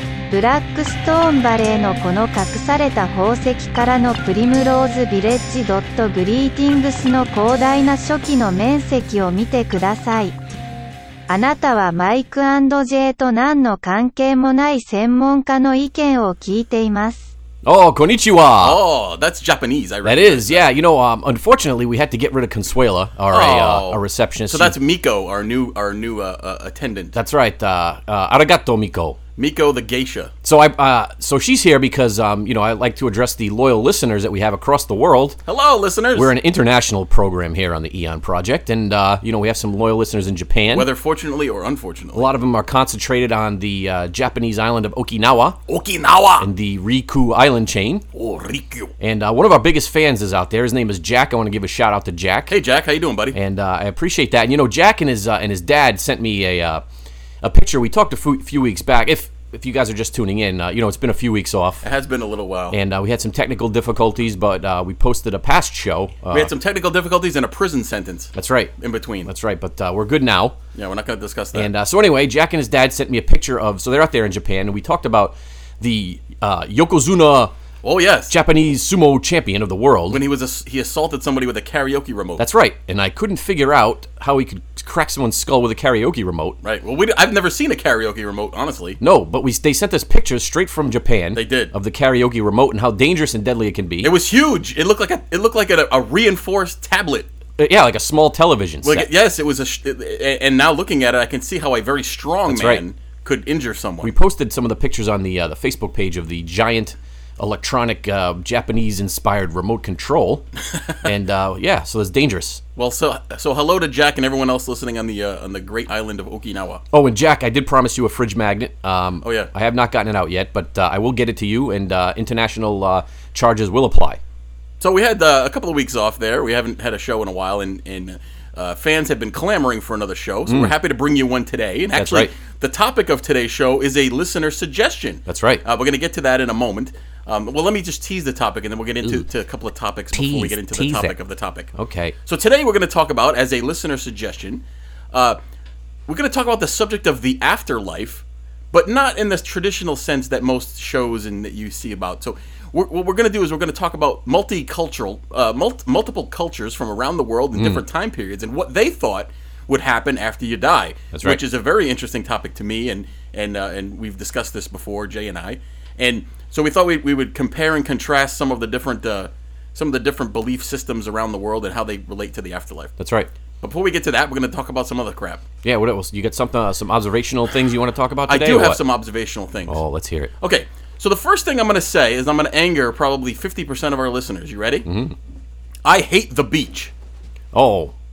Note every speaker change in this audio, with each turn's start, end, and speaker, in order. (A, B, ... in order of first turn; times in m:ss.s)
0:00.3-0:10.3 A
0:11.3-0:17.3 A
0:17.6-0:18.8 B
0:18.6-0:20.7 C
0:20.0-0:24.8 B
0:23.3-0:27.2 C
0:27.1-0:29.2 B
0:29.4-0:30.3 C
0:30.4-0:35.4 B
0:35.4-0:36.3 C
0:36.1-0:40.9 B
0:40.7-0:42.3 C
0:42.1-0:45.6 B
0:45.7-0:46.5 C
0:46.4-0:48.0 B
0:48.1-0:48.9 C
0:49.0-0:52.6 B
0:52.5-0:53.4 C
0:53.3-0:56.8 B
0:57.4-1:01.8 B
1:01.8-1:02.8 C
1:02.7-1:06.5 B
1:06.3-1:09.3 C
1:08.3-1:08.7 B
1:09.2-1:10.6 B
1:10.7-1:11.7 C
1:11.5-1:17.5 B
1:17.8-1:18.3 C
1:18.3-1:20.2 B
1:20.1-1:22.4 C
1:22.4-1:26.6 B
1:26.6-1:29.0 C
1:29.0-1:34.1 B
1:31.3-1:31.7 C
1:34.0-1:37.3 C
1:37.6-1:39.1 B
1:38.8-1:44.1 C
1:42.5-1:42.8 B
1:44.0-1:50.5 B
1:51.0-1:52.6 B
1:52.8-1:56.8 C
1:56.9-2:04.2 B
1:59.2-1:59.5 C
2:04.8-2:21.7 C
2:10.5-2:10.7 B
2:11.9-2:12.3 B
2:15.2-2:15.6 B
2:20.1-2:21.2 B
2:21.7-2:22.1 B
2:22.2-2:25.4 C
2:26.1-2:52.9 C
2:37.6-2:37.8 B
2:41.1-2:41.4 B
2:53.0-2:53.3 B
2:53.6-2:55.4 C
2:55.6-2:58.8 B
2:58.3-2:59.8 C
2:59.7-3:00.3 B
3:00.4-3:04.8 C
3:04.8-3:05.2 B
3:05.8-3:06.9 C
3:07.5-3:07.9 B